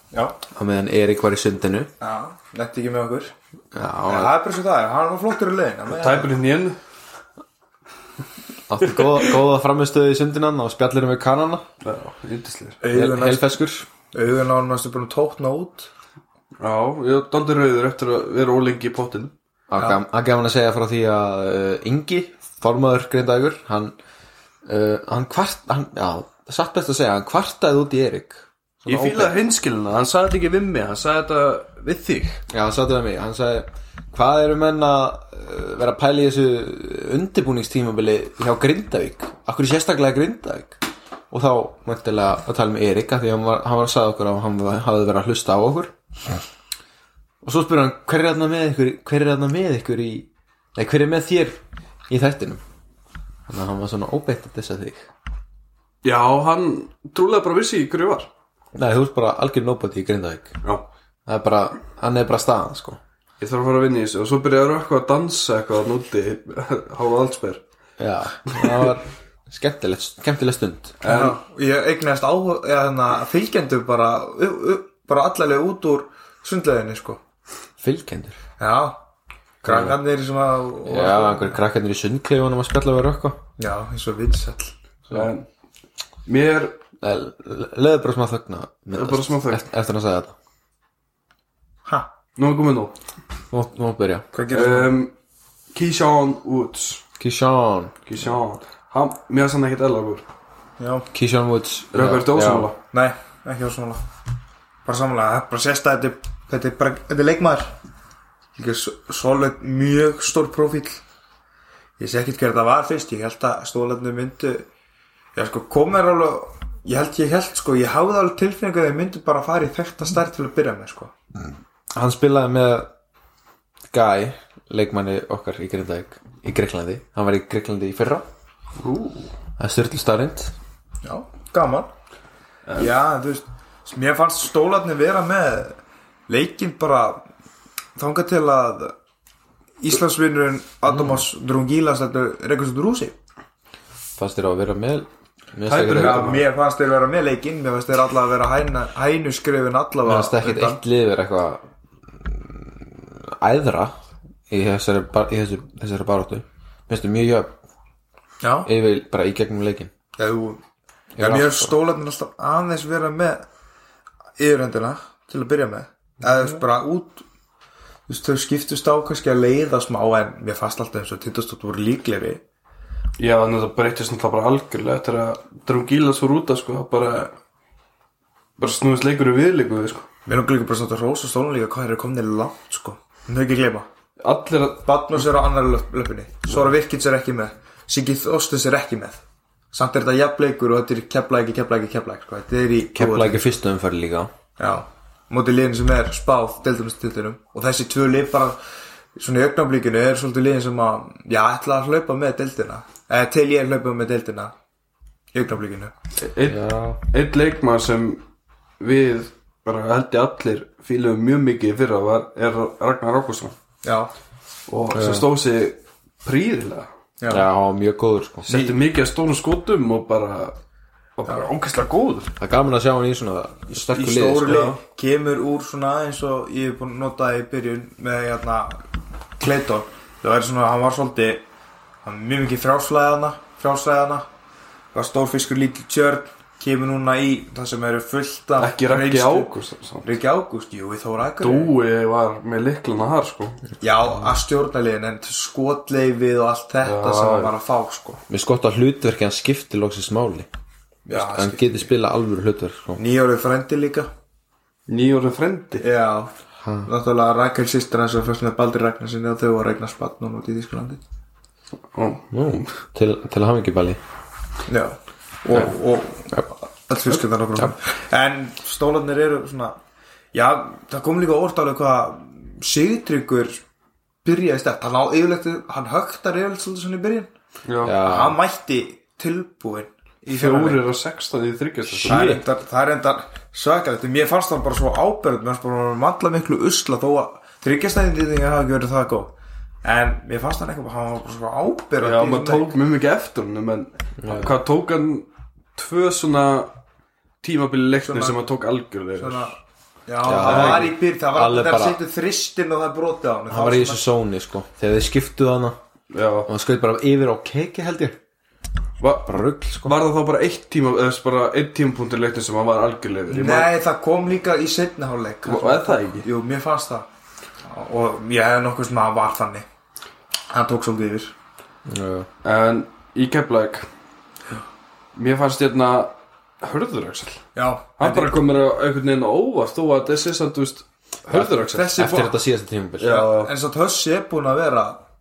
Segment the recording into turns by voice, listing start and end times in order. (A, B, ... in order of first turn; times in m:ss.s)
0:00.1-0:00.4 A
0:00.5-0:01.9 B
0:02.0-0:03.3 A
0:03.7-0:04.3 B
0:04.1-0:06.3 A
0:05.9-0:06.8 C
0:08.7-0:11.6 B
0:11.8-0:12.8 C
0:12.8-0:13.5 A
0:12.9-0:13.9 B
0:14.1-0:15.9 A
0:16.6-0:19.3 C
0:19.7-0:24.0 B
0:24.7-0:29.3 B
0:28.9-0:32.4 C
0:32.5-0:40.8 B
0:41.3-0:45.9 B
0:47.4-0:52.6 B
0:53.5-0:55.1 B
0:56.0-0:58.3 C
0:58.8-1:00.6 B
1:01.3-1:03.0 B
1:03.4-1:07.6 C
1:08.0-1:11.0 B
1:08.5-1:08.9 C
1:11.0-1:11.4 C
1:11.0-1:17.2 A
1:17.8-1:18.4 B
1:18.6-1:19.0 A
1:19.6-1:21.6 A
1:19.7-1:20.0 B
1:20.9-1:23.4 B
1:23.6-1:24.8 A
1:25.1-1:25.4 C
1:26.3-1:26.8 C
1:27.0-1:30.3 B
1:29.0-1:29.6 C
1:32.4-1:32.9 C
1:33.5-1:34.3 B
1:34.3-1:35.0 A
1:34.5-1:35.1 C
1:35.7-1:37.0 C
1:37.2-1:38.0 B
1:38.1-1:40.2 C
1:40.8-1:41.1 A
1:41.1-1:42.7 B
1:41.9-1:42.8 C
1:42.9-1:44.0 A
1:44.8-1:47.8 A
1:48.6-1:51.0 A
1:52.0-1:54.7 A
1:55.4-2:01.1 A
2:02.0-2:02.9 B
2:03.9-2:08.3 B
2:08.8-2:09.3 C
2:09.6-2:10.6 B
2:11.0-2:11.9 A
2:12.8-2:17.3 A
2:18.0-2:19.0 A
2:19.8-2:23.2 A
2:24.2-2:26.4 B
2:25.7-2:26.4 C
2:25.9-2:30.8 A
2:30.0-2:34.0 B
2:34.5-2:37.5 B
2:38.4-2:38.7 A
2:38.6-2:39.9 B
2:40.2-2:40.6 A
2:41.2-2:41.7 B
2:41.2-2:43.4 A
2:44.4-2:47.2 A
2:48.1-2:52.4 A
2:53.2-2:57.3 C
2:58.6-3:00.1 C
3:00.3-3:03.9 A
3:04.2-3:05.0 C
3:04.8-3:13.5 A
3:12.9-3:14.3 B
3:14.6-3:18.6 A
3:19.2-3:24.5 A
3:25.3-3:25.9 A
3:26.2-3:28.2 C
3:26.5-3:27.0 B
3:28.8-3:33.6 C
3:33.8-3:34.1 A
3:34.7-3:36.9 C
3:34.9-3:35.2 B
3:37.2-3:37.4 A
3:37.3-3:38.5 B
3:38.5-3:40.6 C
3:38.5-3:38.8 A
3:41.2-3:42.3 C
3:42.4-3:44.7 B
3:43.7-3:48.8 A
3:44.5-3:44.8 C
3:49.4-3:51.4 A
3:52.0-3:54.3 A
3:54.9-3:59.5 A
3:58.6-4:00.1 C
4:00.0-4:01.7 A
4:01.4-4:03.6 C
4:03.8-4:08.2 A
4:06.8-4:07.5 C
4:08.3-4:10.5 B
4:11.1-4:11.9 A
4:11.1-4:13.0 B
4:13.0-4:14.1 A
4:14.9-4:15.9 C
4:15.8-4:16.3 A
4:16.6-4:16.9 B
4:16.9-4:21.0 A
4:21.9-4:22.7 C
4:22.3-4:24.0 B
4:24.7-4:29.8 A
4:30.3-4:33.6 A
4:34.2-4:37.3 A
4:37.7-4:38.0 C
4:37.8-4:38.4 B
4:38.0-4:40.8 A
4:40.3-4:42.3 C
4:41.9-4:42.4 B
4:42.0-4:52.7 A
4:52.0-4:56.7 C
4:54.2-4:54.6 B
4:57.4-4:59.6 C
4:58.0-4:58.4 A
4:59.2-5:04.1 A
5:00.2-5:02.0 B
5:00.4-5:00.9 C
5:03.5-5:05.8 B
5:06.1-5:06.5 C
5:06.5-5:08.2 B
5:09.0-5:13.7 C
5:09.3-5:10.0 B
5:13.3-5:17.1 A
5:15.4-5:16.3 C
5:17.6-5:19.7 A
5:20.5-5:21.3 A
5:21.9-5:22.3 B
5:22.4-5:23.9 C
5:25.2-5:27.4 C
5:27.6-5:28.4 A
5:28.0-5:32.0 C
5:31.3-5:33.2 B
5:31.5-5:32.4 A
5:33.0-5:33.5 C
5:33.0-5:35.0 A